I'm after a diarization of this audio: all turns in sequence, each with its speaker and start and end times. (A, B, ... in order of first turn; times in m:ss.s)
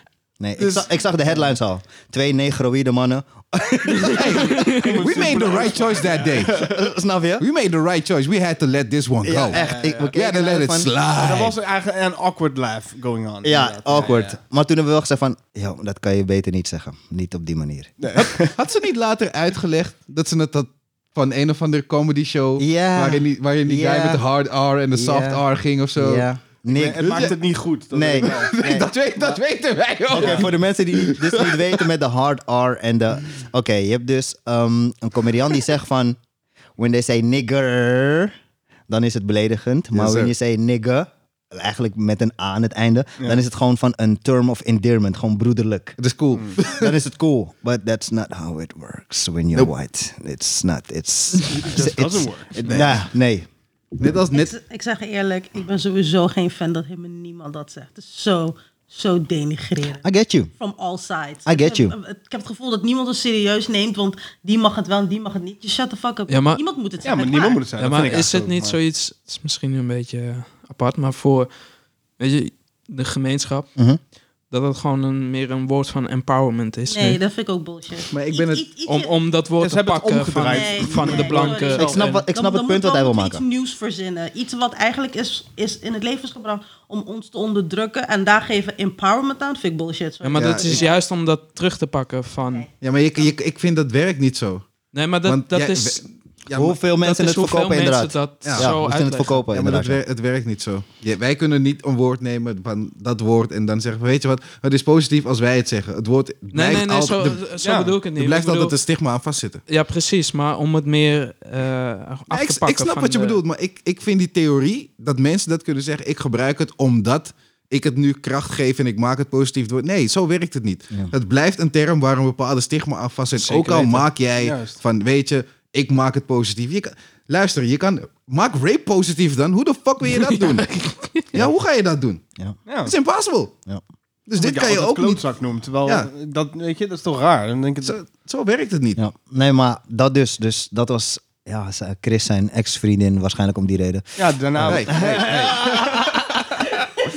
0:00.4-0:04.6 A
0:00.6-0:00.9 B
0:04.0-0:05.1 C
0:04.1-0:06.6 B
0:04.5-0:06.8 D
0:06.6-0:07.4 A
0:07.4-0:09.6 B
0:09.2-0:10.9 A
0:09.5-0:10.2 D
0:10.2-0:11.5 B
0:11.2-0:14.4 D
0:13.4-0:17.9 A
0:18.0-0:18.6 D
0:18.6-0:26.3 B
0:22.6-0:24.2 A
0:24.9-0:25.4 A
0:26.0-0:27.3 A
0:26.7-0:28.7 D
0:27.0-0:27.4 B
0:27.9-0:29.4 A
0:28.4-0:31.9 B
0:30.1-0:36.2 A
0:30.2-0:30.4 D
0:36.8-0:38.3 A
0:38.9-0:46.0 A
0:39.9-0:40.3 B
0:46.0-0:46.9 B
0:46.6-0:53.5 A
0:51.5-0:53.0 D
0:54.0-0:54.5 B
0:54.3-1:00.0 E
1:00.0-1:00.5 A
1:00.6-1:07.6 E
1:01.5-1:02.0 A
1:06.3-1:06.6 C
1:07.0-1:08.8 D
1:07.8-1:11.5 C
1:12.2-1:13.7 C
1:14.5-1:17.2 C
1:16.9-1:19.2 E
1:18.1-1:18.6 B
1:18.8-1:22.2 C
1:19.6-1:21.7 D
1:20.5-1:31.0 E
1:21.7-1:23.4 A
1:30.2-1:32.7 C
1:30.4-1:30.8 B
1:32.8-1:34.7 B
1:34.9-1:36.0 C
1:35.2-1:36.8 B
1:36.5-1:40.0 A
1:36.9-1:39.5 C
1:38.4-1:38.7 B
1:39.5-1:47.5 B
1:46.5-1:48.8 C
1:47.6-1:48.1 D
1:48.1-1:49.6 B
1:49.7-1:53.4 C
1:52.3-2:10.7 B
2:03.3-2:04.1 C
2:04.3-2:04.8 D
2:10.0-2:11.4 C
2:11.3-2:12.2 B
2:12.7-2:13.0 D
2:12.8-2:13.5 B
2:14.3-2:15.2 B
2:14.3-2:18.0 D
2:17.8-2:19.0 B
2:19.0-2:25.8 A
2:24.2-2:26.1 D
2:24.7-2:25.8 B